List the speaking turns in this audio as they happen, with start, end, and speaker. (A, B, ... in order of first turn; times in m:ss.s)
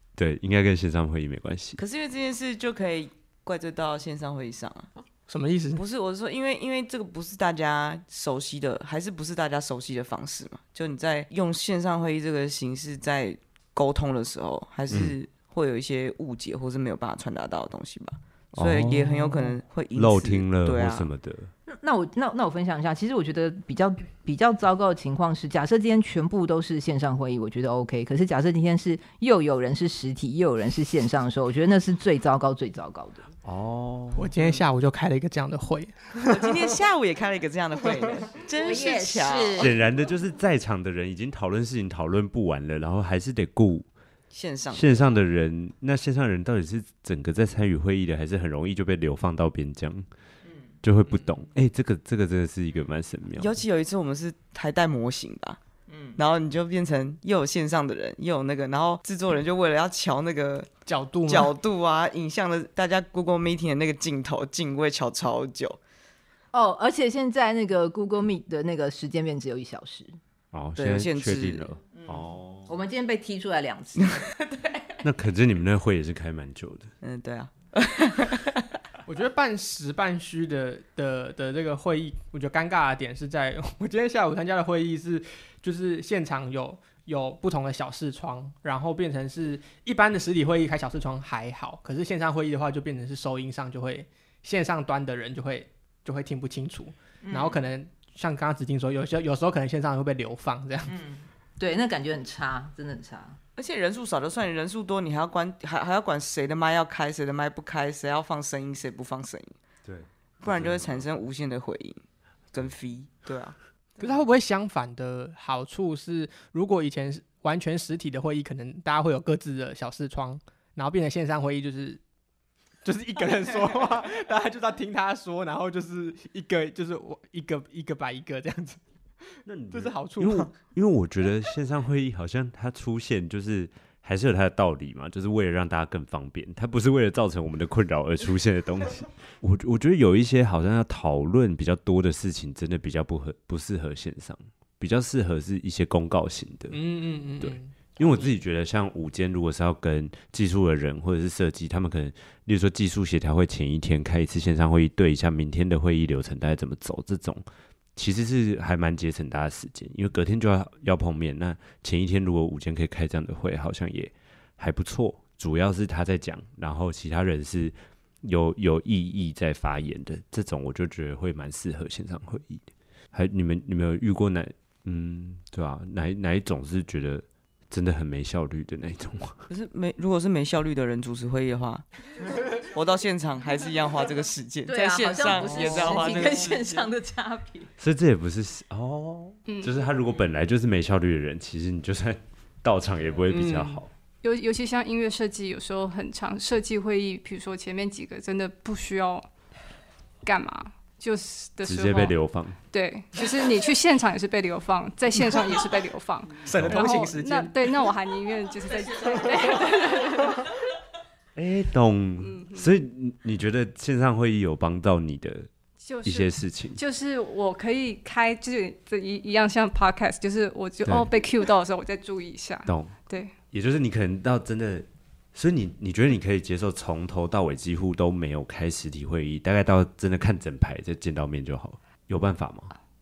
0:00.2-0:01.8 A
0:01.8-0:04.9 B
0:05.3-0:05.8 C
0:05.8-0:21.1 B
0:14.9-0:15.2 A
0:18.6-0:21.5 A
0:21.7-0:33.3 D
0:33.4-0:34.6 A
0:34.2-0:36.5 C
0:36.3-0:39.8 B
0:38.6-0:39.8 D
0:39.5-0:43.9 A
0:44.3-0:45.1 B
0:44.7-0:50.1 A
0:50.8-0:53.5 A
0:53.3-0:55.6 B
0:55.9-0:56.2 D
0:56.2-1:00.7 B
1:00.9-1:01.5 C
1:01.2-1:05.8 B
1:06.5-1:10.2 D
1:10.5-1:12.7 A
1:10.8-1:11.7 B
1:12.0-1:14.3 D
1:15.0-1:16.9 A
1:17.0-1:18.6 B
1:19.1-1:40.9 C
1:37.2-1:37.6 D
1:40.9-1:43.4 D
1:43.6-1:49.5 B
1:49.8-1:51.2 A
1:50.4-1:52.0 B
1:52.5-1:53.6 B
1:54.0-2:02.0 C
2:02.8-2:08.8 C
2:09.4-2:26.8 A
2:09.7-2:10.5 C
2:26.7-2:28.2 C
2:27.4-2:59.4 A
2:59.5-3:01.8 B
3:02.6-3:06.9 B
3:04.7-3:07.7 D
3:05.4-3:06.0 A
3:07.8-3:13.9 A
3:09.5-3:09.7 E
3:13.3-3:13.8 C
3:14.2-3:19.3 E
3:20.2-3:22.2 E
3:21.6-3:22.6 A
3:22.7-3:30.5 E
3:26.4-3:27.7 C
3:26.6-3:26.9 A
3:31.4-3:35.5 A
3:32.2-3:32.8 E
3:35.8-3:43.3 E
3:36.0-3:36.8 A
3:42.7-3:43.0 A
3:43.5-3:52.7 A